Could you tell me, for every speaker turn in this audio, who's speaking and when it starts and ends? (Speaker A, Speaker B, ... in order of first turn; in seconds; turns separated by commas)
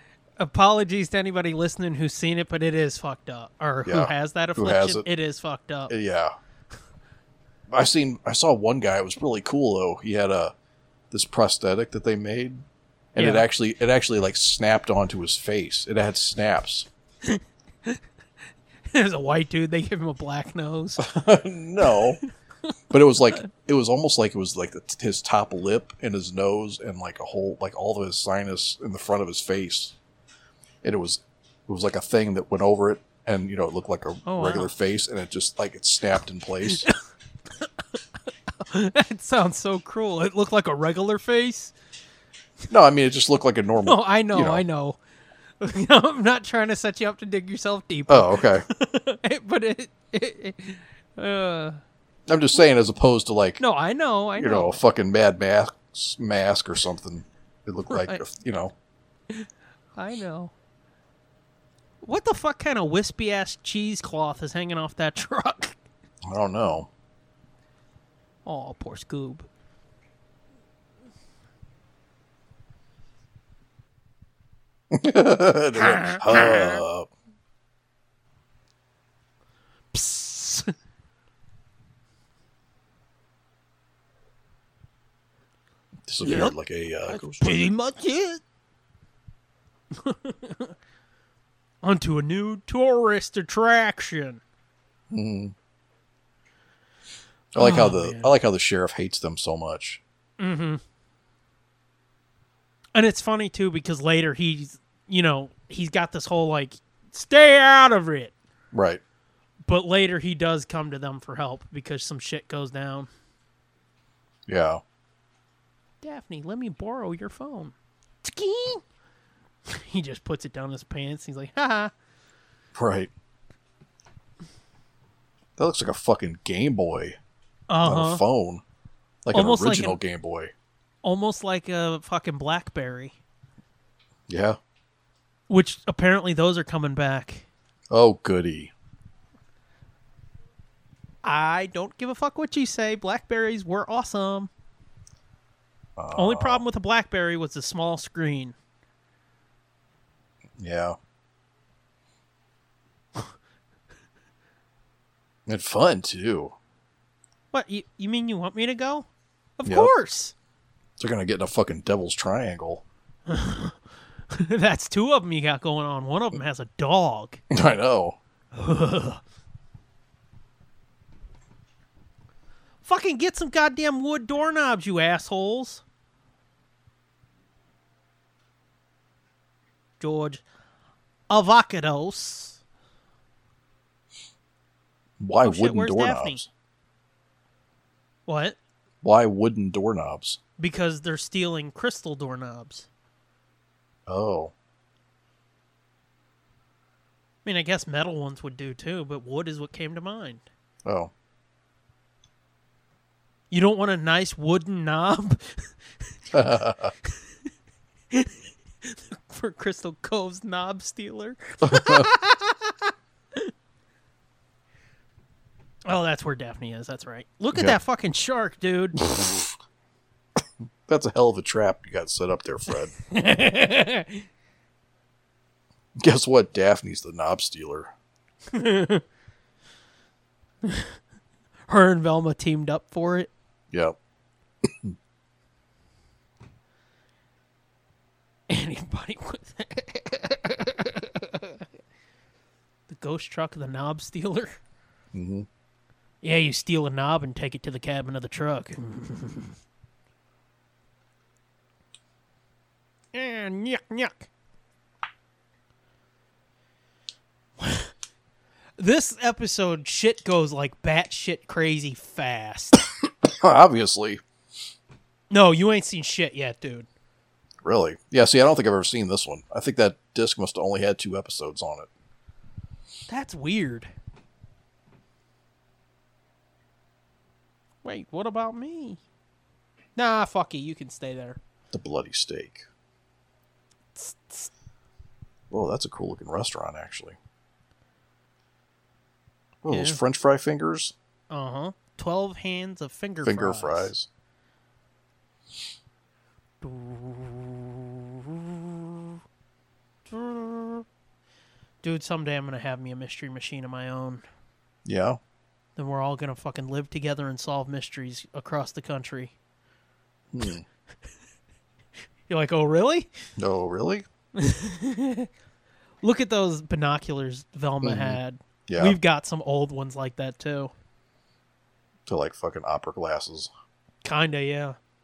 Speaker A: 0.4-5.9, Speaker B: 3.9-5.0, Speaker B: 5.9-6.3, Speaker B: 7.7-10.5, Speaker B: 11.1-16.9, Speaker A: 13.2-13.5, Speaker A: 17.2-18.0, Speaker A: 18.9-21.1, Speaker B: 21.0-22.2, Speaker B: 22.9-29.9, Speaker B: 30.8-36.9, Speaker A: 34.2-34.7, Speaker A: 36.7-36.9, Speaker A: 38.6-41.7, Speaker B: 42.7-44.6, Speaker A: 43.8-45.0, Speaker A: 45.6-51.8, Speaker B: 48.1-48.6, Speaker B: 52.3-53.6, Speaker A: 53.6-54.7, Speaker B: 54.4-58.7, Speaker A: 57.9-58.2, Speaker A: 59.3-60.5, Speaker A: 62.0-65.8, Speaker B: 66.2-66.9, Speaker A: 68.4-69.5, Speaker B: 74.9-77.1, Speaker A: 75.8-76.8, Speaker A: 79.9-80.7, Speaker B: 86.1-87.7, Speaker A: 86.2-86.5, Speaker A: 87.1-88.4, Speaker A: 89.9-90.7, Speaker A: 91.8-94.4, Speaker B: 95.1-95.5, Speaker B: 97.5-100.0, Speaker A: 97.6-98.3, Speaker A: 100.4-100.8, Speaker A: 102.9-108.3, Speaker B: 108.7-109.0, Speaker A: 109.7-113.1, Speaker B: 114.5-114.8, Speaker A: 116.0-118.8, Speaker A: 119.7-121.9, Speaker B: 122.7-123.1, Speaker B: 125.6-127.2, Speaker A: 127.7-128.2, Speaker B: 127.8-128.6, Speaker B: 129.2-130.5, Speaker A: 129.3-130.0, Speaker A: 131.0-133.2, Speaker B: 134.3-134.6, Speaker A: 135.5-137.4, Speaker B: 137.9-138.7, Speaker A: 141.2-144.5, Speaker B: 146.0-146.6, Speaker A: 146.1-148.5, Speaker B: 150.6-151.0, Speaker B: 155.5-156.5, Speaker A: 157.5-159.1, Speaker A: 159.6-160.3, Speaker B: 159.7-159.9, Speaker B: 161.0-162.8, Speaker A: 163.3-163.8, Speaker A: 164.3-167.4, Speaker B: 167.5-168.2, Speaker A: 168.5-169.2, Speaker A: 172.8-175.8, Speaker A: 180.0-180.4, Speaker A: 181.3-182.6, Speaker B: 185.2-186.5, Speaker A: 185.4-186.4, Speaker A: 188.3-188.6, Speaker B: 189.0-190.4, Speaker A: 190.6-192.9, Speaker B: 194.1-194.5, Speaker A: 197.4-200.4, Speaker B: 200.8-201.1, Speaker A: 203.5-205.7, Speaker B: 206.3-206.9, Speaker A: 208.1-213.5, Speaker B: 211.6-212.1, Speaker A: 215.8-219.0, Speaker B: 219.0-219.5, Speaker B: 220.9-222.9, Speaker A: 223.1-224.2, Speaker B: 226.0-227.9, Speaker A: 228.5-229.0, Speaker A: 230.6-230.9, Speaker A: 231.7-233.3, Speaker B: 233.7-233.9, Speaker B: 234.6-234.9, Speaker A: 238.5-241.6, Speaker A: 242.9-244.6, Speaker B: 245.1-245.5, Speaker A: 246.2-249.6, Speaker A: 253.1-254.3, Speaker A: 257.6-257.9, Speaker A: 258.8-262.8, Speaker B: 263.2-264.2, Speaker A: 265.3-266.9, Speaker B: 267.6-271.9, Speaker A: 273.1-273.9, Speaker A: 277.8-279.0, Speaker A: 279.9-281.4, Speaker B: 281.7-282.6, Speaker A: 283.9-284.5, Speaker B: 285.5-287.2, Speaker B: 289.6-290.9, Speaker A: 289.7-290.0, Speaker A: 291.3-293.9, Speaker B: 293.2-294.1, Speaker A: 296.6-299.1, Speaker A: 300.1-300.9, Speaker A: 301.8-304.2, Speaker B: 304.8-305.2, Speaker A: 305.8-309.3, Speaker B: 310.3-310.6, Speaker A: 312.3-313.1, Speaker B: 313.4-314.1, Speaker A: 314.4-315.3, Speaker A: 316.0-320.7, Speaker B: 317.8-319.0, Speaker B: 322.1-323.5, Speaker A: 324.0-324.8